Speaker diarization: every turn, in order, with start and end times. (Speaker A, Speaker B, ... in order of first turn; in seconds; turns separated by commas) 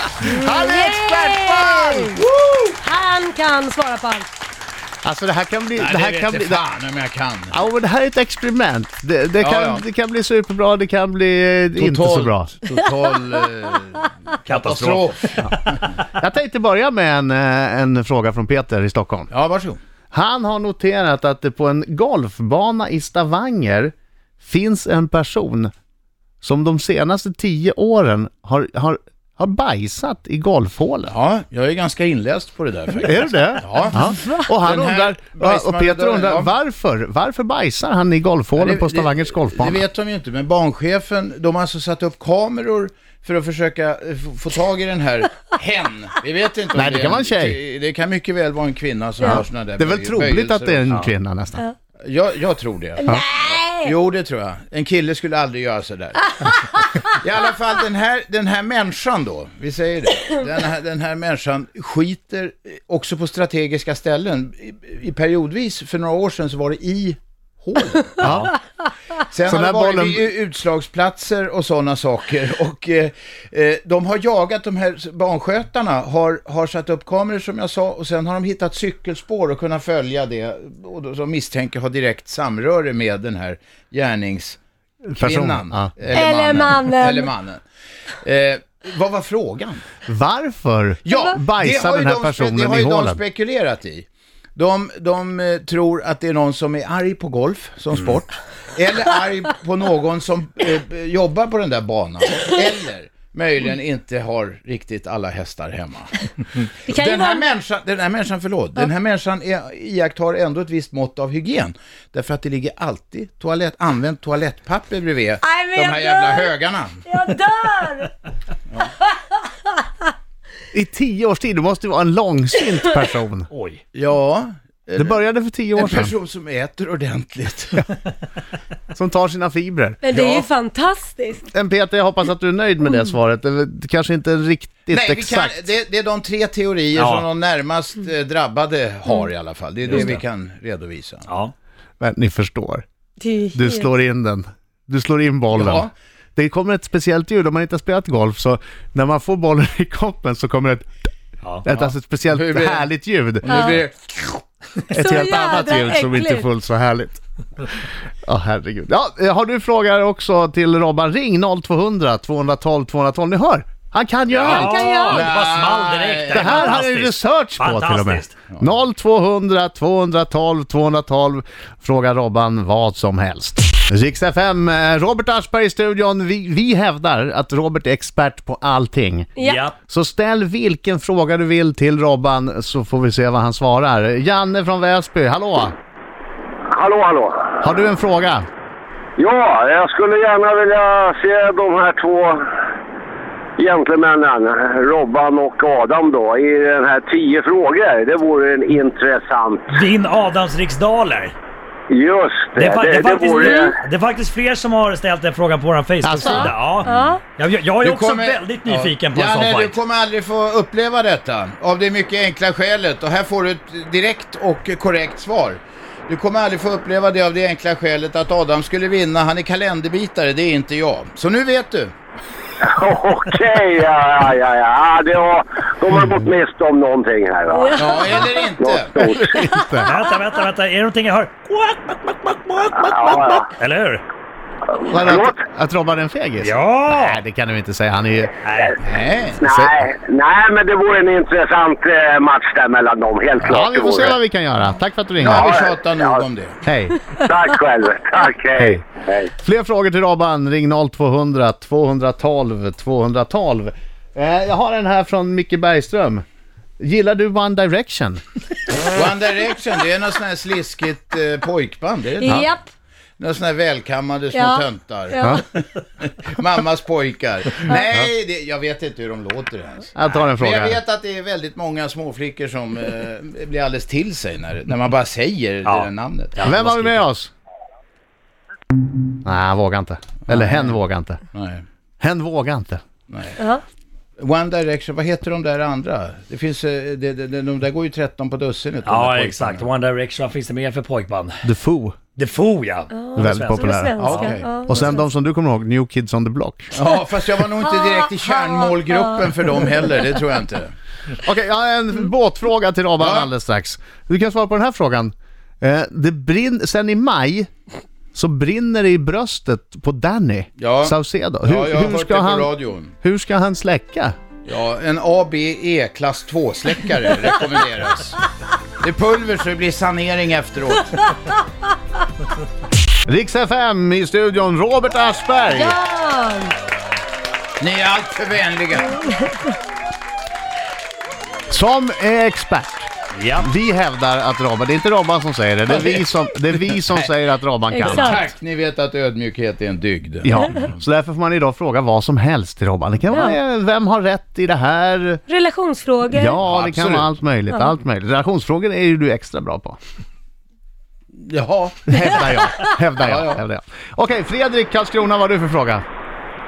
Speaker A: 0.2-2.1, Speaker B: 0.3-2.1, Speaker C: 2.2-2.8, Speaker B: 2.8-4.3, Speaker A: 5.0-6.6, Speaker C: 5.8-7.5, Speaker A: 7.5-12.5, Speaker C: 9.4-9.8, Speaker C: 11.7-15.8, Speaker D: 14.4-15.5, Speaker A: 16.2-19.3, Speaker C: 19.3-19.8, Speaker A: 20.1-25.7, Speaker A: 26.4-31.1, Speaker C: 31.1-36.5, Speaker A: 33.0-39.8, Speaker C: 38.5-50.9, Speaker A: 46.7-47.6, Speaker A: 49.2-51.6, Speaker C: 52.0-68.2, Speaker B: 53.0-53.9, Speaker A: 68.2-68.5, Speaker C: 69.3-84.6, Speaker A: 69.5-70.3, Speaker A: 85.1-86.2, Speaker C: 85.2-87.6, Speaker B: 86.1-87.3, Speaker C: 88.2-89.9, Speaker A: 90.0-93.2, Speaker C: 91.0-117.0, Speaker B: 106.9-107.4, Speaker B: 115.4-118.2, Speaker B: 119.0-119.5, Speaker A: 120.7-123.5, Speaker D: 123.5-123.8, Speaker C: 123.9-125.2, Speaker A: 125.0-126.1, Speaker C: 125.8-127.9, Speaker A: 128.9-130.0, Speaker B: 130.0-131.4, Speaker C: 130.1-130.5, Speaker A: 131.5-135.6, Speaker C: 134.9-141.3, Speaker D: 136.9-137.3, Speaker D: 139.8-140.2, Speaker D: 141.3-141.5, Speaker A: 142.0-142.8, Speaker B: 143.2-143.9, Speaker A: 143.5-150.9, Speaker C: 145.5-145.9, Speaker D: 151.4-151.8, Speaker A: 151.6-153.8, Speaker C: 152.3-152.9, Speaker C: 153.4-154.4, Speaker A: 154.9-165.2, Speaker B: 154.9-156.5, Speaker C: 164.3-166.7, Speaker D: 164.3-168.3, Speaker B: 164.7-165.1, Speaker A: 166.3-179.3, Speaker B: 179.4-179.6, Speaker D: 179.4-179.7, Speaker A: 179.9-185.7, Speaker E: 186.7-187.6, Speaker A: 187.6-188.5, Speaker E: 189.2-192.4, Speaker E: 193.6-199.6, Speaker D: 199.7-201.3, Speaker E: 201.9-203.8, Speaker D: 202.5-209.8, Speaker A: 206.0-206.9, Speaker B: 206.9-207.2, Speaker C: 207.8-221.9, Speaker E: 222.6-227.7, Speaker B: 227.5-228.1, Speaker C: 227.7-229.0, Speaker E: 228.4-229.3, Speaker A: 229.0-229.9, Speaker D: 229.8-231.7, Speaker E: 232.7-233.4, Speaker A: 232.8-233.4, Speaker D: 233.6-234.0, Speaker E: 234.9-235.4, Speaker A: 234.9-238.3, Speaker D: 236.4-237.2, Speaker D: 238.4-238.7, Speaker C: 238.8-239.5, Speaker E: 239.4-244.1, Speaker A: 239.5-239.8, Speaker A: 243.4-245.4, Speaker C: 245.2-246.6, Speaker E: 245.2-246.3, Speaker A: 246.6-247.0, Speaker E: 247.2-249.3, Speaker A: 248.6-248.8, Speaker A: 249.4-256.2, Speaker A: 256.8-258.2, Speaker C: 258.9-262.5, Speaker B: 262.2-262.6, Speaker C: 263.2-276.5, Speaker B: 264.3-265.4, Speaker A: 269.9-270.8, Speaker D: 275.6-277.1, Speaker A: 276.4-277.3, Speaker A: 279.2-281.2, Speaker C: 280.3-280.8, Speaker C: 281.3-281.6, Speaker A: 282.0-282.8, Speaker C: 283.1-283.4, Speaker B: 283.4-283.6, Speaker C: 284.2-289.7, Speaker D: 288.8-291.4, Speaker A: 291.4-292.0, Speaker D: 292.1-294.3, Speaker B: 292.9-295.0, Speaker A: 293.1-296.7, Speaker C: 294.0-294.9, Speaker C: 296.7-300.7, Speaker A: 301.2-307.5, Speaker C: 303.0-303.3, Speaker A: 308.1-314.1, Speaker C: 310.6-312.9, Speaker C: 314.4-318.2, Speaker C: 318.8-321.1, Speaker A: 323.0-325.7, Speaker B: 325.5-326.5, Speaker C: 327.6-329.3, Speaker A: 331.5-338.2, Speaker D: 333.1-333.5, Speaker C: 335.7-337.1, Speaker B: 337.7-338.2, Speaker C: 337.8-340.7, Speaker A: 340.2-345.2, Speaker B: 345.3-346.3, Speaker A: 346.1-349.8, Speaker C: 346.4-347.1, Speaker C: 351.2-353.4, Speaker A: 351.9-355.8